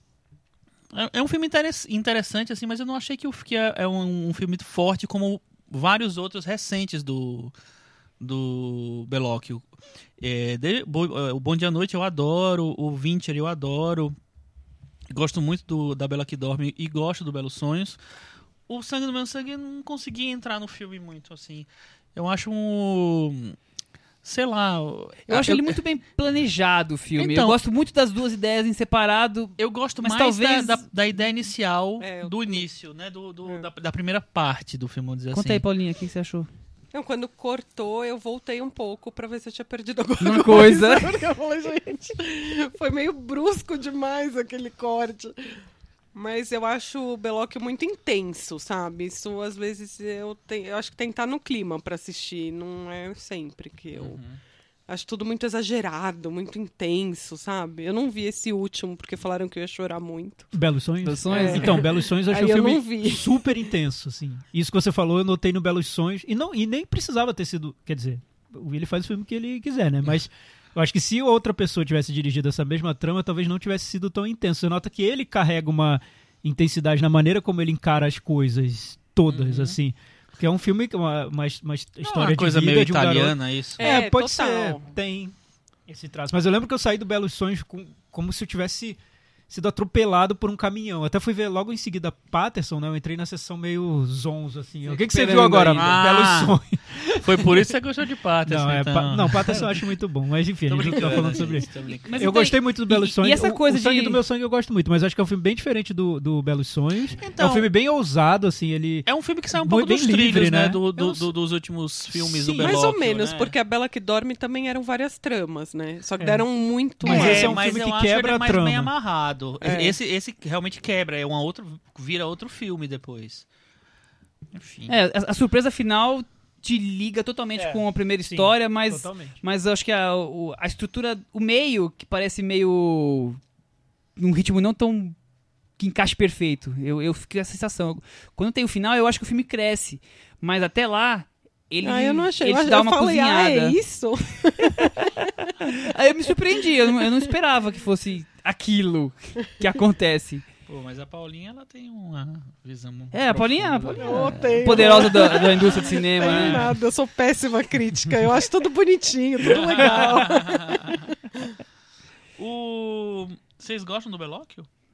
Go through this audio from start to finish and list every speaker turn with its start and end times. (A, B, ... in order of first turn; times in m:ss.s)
0:00.9-0:07.5 A
0:08.2-0:09.7 A
0:10.2-0:14.2 A
0:15.1-0:18.0 A
0:18.7-0:23.6 A
0:24.2-0:25.8 A
0:25.3-0:30.8 B
0:27.2-0:27.6 A
0:29.6-0:35.6 A
0:32.0-0:32.7 C
0:35.3-0:36.5 B
0:36.9-0:45.5 C
0:40.2-0:41.1 B
0:46.1-0:54.2 C
0:53.9-0:54.4 A
0:54.9-1:00.5 C
1:00.5-1:25.3 D
1:01.0-1:01.8 B
1:01.3-1:03.5 C
1:19.3-1:19.8 A
1:22.0-1:23.9 A
1:23.8-1:24.8 C
1:25.9-1:37.7 D
1:34.8-1:36.0 B
1:35.7-1:36.6 A
1:37.2-1:39.9 A
1:38.5-1:51.3 D
1:40.7-1:42.3 A
1:42.0-1:44.2 B
1:47.2-1:47.7 A
1:49.0-1:53.5 A
1:52.1-1:52.8 D
1:52.6-1:57.6 C
1:56.2-1:56.4 D
1:57.0-1:58.9 D
1:57.0-2:03.4 A
1:59.6-2:00.0 C
2:04.5-2:04.9 A
2:04.9-2:13.4 B
2:07.6-2:09.4 D
2:14.2-2:15.2 B
2:15.8-2:23.8 B
2:21.8-2:25.3 C
2:24.8-2:30.4 B
2:30.7-2:35.5 A
2:33.1-2:36.6 B
2:33.9-2:41.1 C
2:39.4-2:41.0 A
2:42.4-2:44.7 A